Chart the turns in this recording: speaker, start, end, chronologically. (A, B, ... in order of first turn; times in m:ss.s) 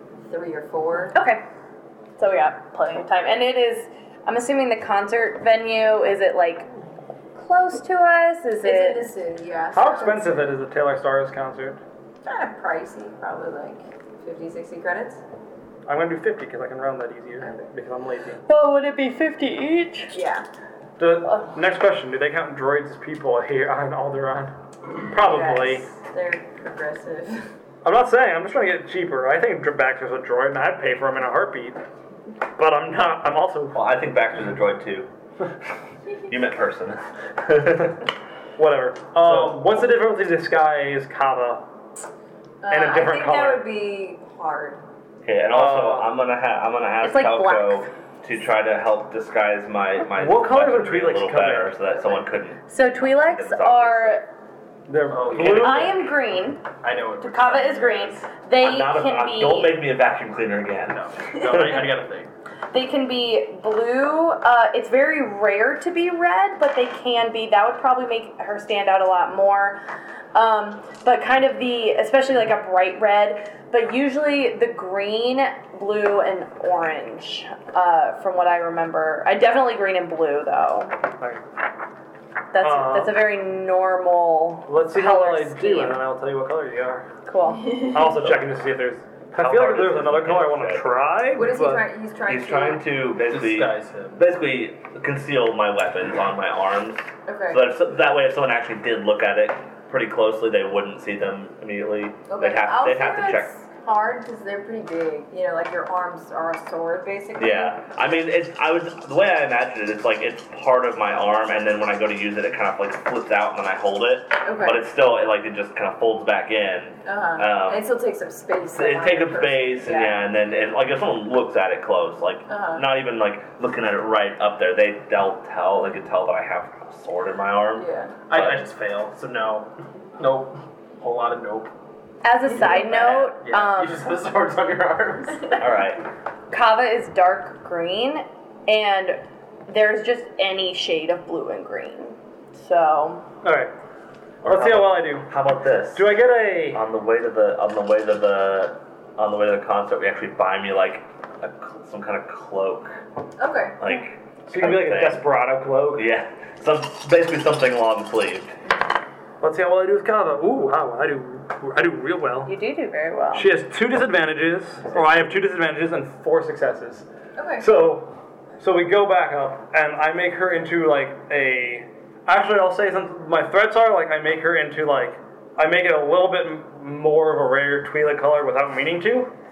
0:00.3-0:01.2 A
0:01.1-0:01.4 B
0:02.2-0:06.7 B
0:07.4-0:09.1 B
0:08.6-0:10.4 A
0:09.7-0:11.8 C
0:12.2-0:15.2 A
0:15.8-0:18.4 C
0:17.4-0:17.7 A
0:18.4-0:20.1 B
0:20.1-0:20.4 A
0:21.0-0:25.8 C
0:25.2-0:27.4 A
0:27.8-0:31.8 C
0:32.6-0:33.8 C
0:33.7-0:35.1 D
0:36.3-0:38.0 D
0:38.6-0:41.6 C
0:39.2-0:39.6 D
0:42.6-0:44.8 A
0:42.7-0:43.6 C
0:45.2-0:54.2 D
0:45.5-0:46.1 C
0:47.0-0:47.9 B
0:50.2-0:51.8 C
0:52.7-0:54.2 B
0:54.9-0:56.0 C
0:55.1-0:55.9 E
0:55.3-0:56.7 B
0:56.8-0:58.2 E
0:57.2-0:59.8 B
0:58.6-1:01.9 D
1:00.9-1:02.3 E
1:02.7-1:09.8 B
1:10.3-1:20.9 B
1:22.5-1:26.0 B
1:22.6-1:23.2 C
1:24.7-1:27.1 C
1:27.2-1:27.9 B
1:27.5-1:28.3 A
1:27.9-1:31.9 C
1:28.0-1:28.4 D
1:29.3-1:30.9 D
1:31.3-1:32.8 A
1:32.2-1:43.5 D
1:33.2-1:34.2 E
1:37.2-1:37.6 A
1:42.3-1:47.8 A
1:47.4-1:57.9 D
1:54.4-1:54.8 A
1:57.0-2:00.2 A
1:58.7-2:08.6 D
2:02.5-2:02.8 A
2:07.8-2:08.2 A
2:08.3-2:11.7 E
2:12.2-2:14.1 B
2:12.5-2:15.6 E
2:15.5-2:16.0 D
2:16.5-2:23.2 B
2:23.4-2:23.7 C
2:24.4-2:33.0 D
2:24.4-2:25.3 C
2:25.9-2:26.8 C
2:33.4-2:33.8 A
2:33.8-2:35.2 D
2:34.5-2:36.1 C
2:35.9-2:38.5 D
2:39.4-2:42.5 C
2:42.4-2:43.5 B
2:43.3-2:47.1 C
2:47.4-2:47.7 A
2:47.6-2:59.3 C